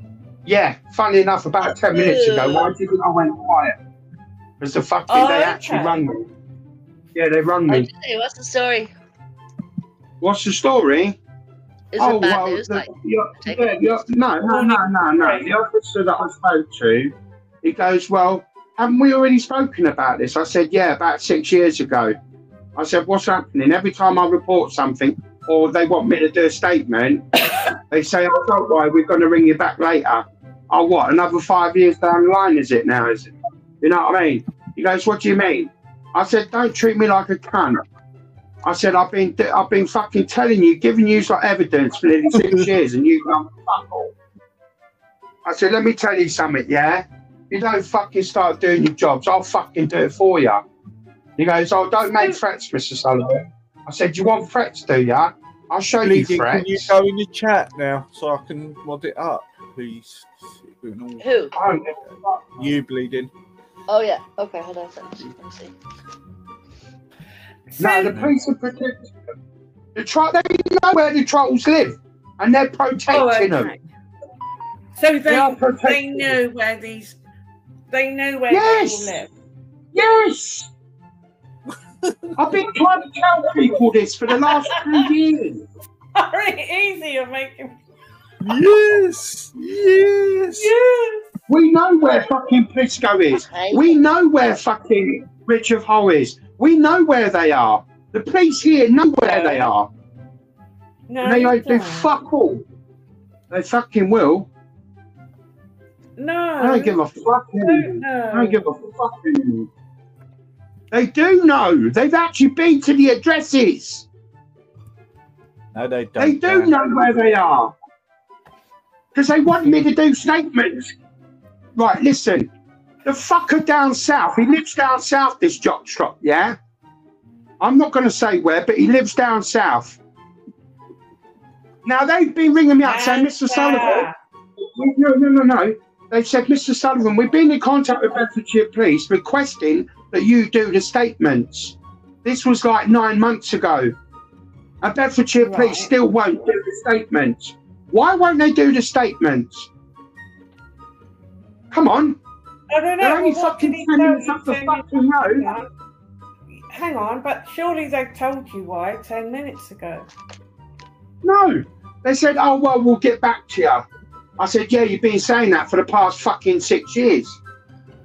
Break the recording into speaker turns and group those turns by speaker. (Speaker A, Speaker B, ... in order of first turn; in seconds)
Speaker A: 0.5-3.8, 4.6-6.3, 7.2-7.9, 10.2-11.2, 12.0-22.2, 22.8-27.2, 27.9-37.8, 38.6-44.1, 45.5-50.6, 51.4-56.9, 61.5-62.4, 67.8-69.1, 70.0-73.7, 75.3-76.4, 78.5-79.2, 79.9-80.7, 82.4-85.7, 91.5-99.9, 101.2-102.6, 103.5-104.5, 106.6-109.7, 110.9-114.1, 116.2-117.7, 119.1-120.9, 121.8-122.5, 123.0-126.5, 127.6-130.0, 131.8-134.1, 134.6-143.9, 144.8-149.7, 151.7-152.2, 153.0-155.5, 161.2-163.8, 164.4-167.4
Speaker B: 1.6-2.7, 7.7-8.9, 11.9-13.7, 61.2-61.5, 63.9-65.7, 93.3-94.0
Speaker C: 5.1-6.0, 14.4-15.5, 52.0-52.4, 67.7-68.2, 73.1-73.8, 75.0-77.2, 77.9-79.3, 84.4-85.0, 86.2-87.7, 90.6-91.3, 99.2-99.7, 101.1-102.1, 106.2-107.0, 107.6-108.6, 132.8-134.1, 145.4-145.9, 152.7-155.7, 156.5-160.1
Speaker D: 56.0-61.4, 62.0-63.3, 82.0-82.3, 88.4-90.7, 115.7-116.8